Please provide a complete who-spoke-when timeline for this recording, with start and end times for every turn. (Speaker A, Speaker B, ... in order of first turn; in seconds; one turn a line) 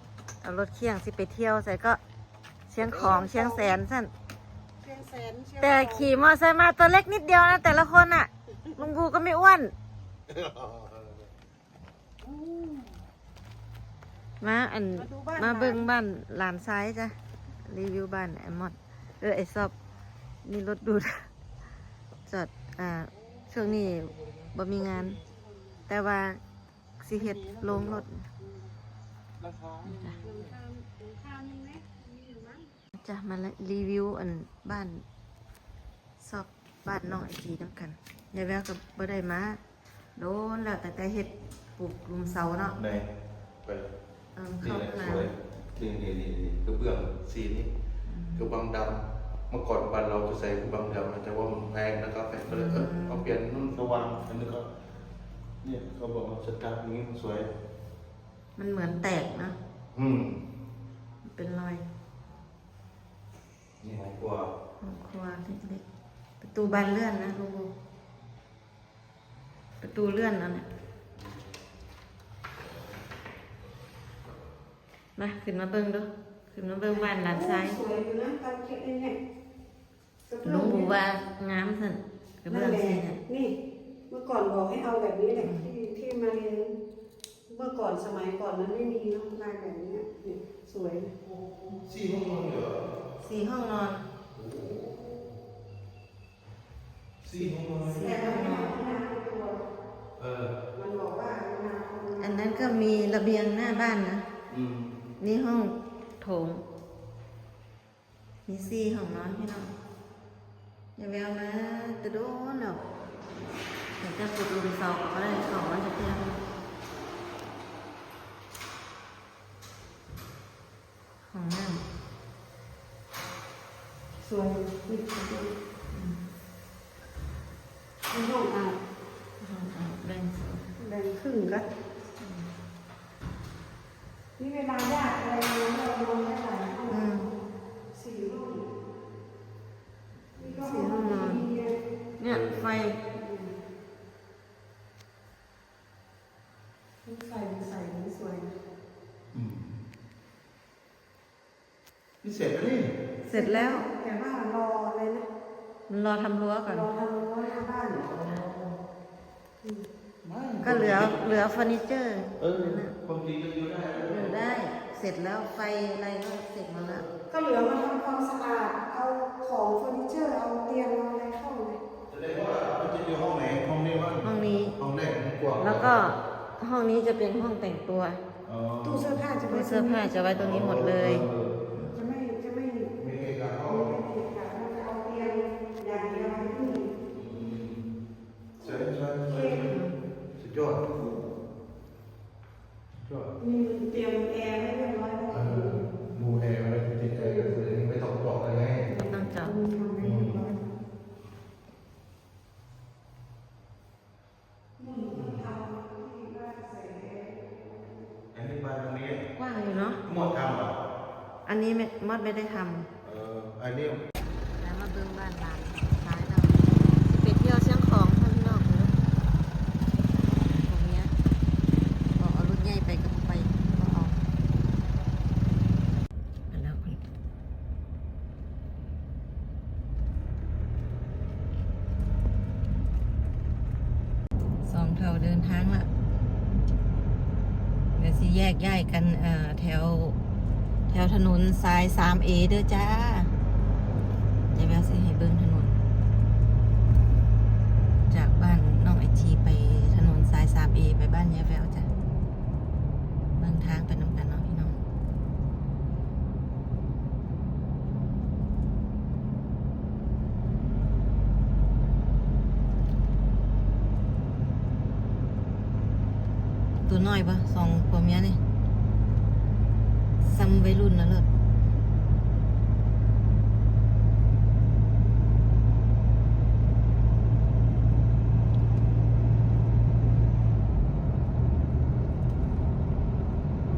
Speaker A: 0.4-2.0
Speaker A: 2.7-4.1
Speaker B: 2.9-3.8
Speaker B: 4.8-6.1
Speaker A: 5.6-9.7
Speaker C: 10.3-11.2
Speaker A: 14.4-17.1
Speaker B: 15.0-15.9
Speaker A: 17.6-19.7
Speaker A: 20.4-21.3
Speaker A: 22.2-25.2
Speaker A: 25.9-26.4
Speaker A: 27.0-28.3
Speaker C: 27.4-28.0
Speaker C: 29.4-30.3
Speaker A: 29.8-30.2
Speaker B: 30.2-32.7
Speaker A: 33.0-35.0
Speaker A: 36.2-39.6
Speaker A: 40.1-42.8
Speaker C: 42.8-43.0
Speaker A: 44.3-45.3
Speaker C: 44.6-47.7
Speaker A: 48.1-48.5
Speaker C: 48.3-54.7
Speaker A: 52.5-53.3
Speaker C: 55.6-57.5
Speaker A: 58.6-59.5
Speaker C: 59.9-60.4
Speaker A: 61.2-61.8
Speaker C: 63.8-64.5
Speaker A: 64.8-65.8
Speaker A: 66.4-67.7
Speaker A: 69.8-70.7
Speaker A: 75.2-77.8
Speaker B: 76.9-79.2
Speaker B: 80.3-80.9
Speaker A: 80.4-83.2
Speaker B: 82.5-83.5
Speaker B: 84.1-86.7
Speaker A: 85.4-85.7
Speaker B: 87.5-91.1
Speaker C: 91.7-92.8
Speaker A: 93.2-94.0
Speaker C: 94.3-95.2
Speaker C: 97.2-98.0
Speaker A: 97.8-98.8
Speaker B: 98.0-99.6
Speaker C: 100.2-100.5
Speaker B: 100.7-102.8
Speaker A: 102.2-104.2
Speaker C: 104.5-104.9
Speaker A: 105.2-106.6
Speaker A: 108.5-109.7
Speaker A: 111.0-112.8
Speaker A: 114.0-116.4
Speaker A: 121.2-121.8
Speaker B: 124.2-125.5
Speaker A: 125.9-126.2
Speaker B: 128.1-128.8
Speaker A: 129.4-130.7
Speaker B: 130.8-131.7
Speaker A: 132.2-132.5
Speaker B: 134.4-137.0
Speaker A: 136.9-137.3
Speaker B: 137.9-138.7
Speaker B: 140.3-141.8
Speaker A: 140.6-141.5
Speaker A: 142.2-143.0
Speaker C: 142.3-142.6
Speaker B: 143.1-143.5
Speaker B: 147.0-148.5
Speaker C: 149.3-149.8
Speaker C: 152.2-152.9
Speaker A: 153.3-153.8
Speaker B: 153.3-155.2
Speaker A: 155.9-156.9
Speaker B: 156.7-158.1
Speaker C: 157.9-158.8
Speaker C: 160.2-161.2
Speaker A: 160.6-162.9
Speaker C: 162.4-164.3
Speaker A: 164.0-167.0
Speaker B: 167.3-171.8
Speaker C: 172.1-175.9
Speaker A: 174.2-174.8
Speaker A: 175.6-178.2
Speaker C: 178.4-179.2
Speaker B: 178.8-180.2
Speaker A: 179.5-181.9
Speaker C: 180.3-181.6
Speaker B: 181.9-182.9
Speaker C: 182.9-183.9
Speaker B: 183.7-186.9
Speaker C: 187.1-187.9
Speaker C: 188.6-189.7
Speaker B: 189.3-189.7
Speaker A: 189.6-189.9
Speaker C: 190.3-190.9
Speaker C: 192.9-193.3
Speaker B: 193.4-195.9
Speaker C: 195.3-198.9
Speaker B: 197.2-197.5
Speaker B: 198.8-200.6
Speaker A: 199.1-199.5
Speaker C: 200.0-200.4
Speaker B: 204.8-208.0
Speaker C: 205.1-205.5
Speaker C: 208.3-209.2
Speaker A: 209.3-210.0
Speaker C: 210.0-210.8
Speaker A: 211.4-212.9
Speaker C: 213.0-214.0
Speaker A: 214.6-218.9
Speaker A: 220.3-221.1
Speaker A: 222.2-224.2
Speaker A: 226.5-227.0
Speaker A: 234.6-235.9
Speaker A: 237.9-240.2
Speaker A: 240.9-243.3
Speaker A: 244.5-245.8
Speaker A: 248.1-251.9
Speaker A: 253.3-254.8
Speaker A: 266.9-268.4
Speaker A: 270.2-271.3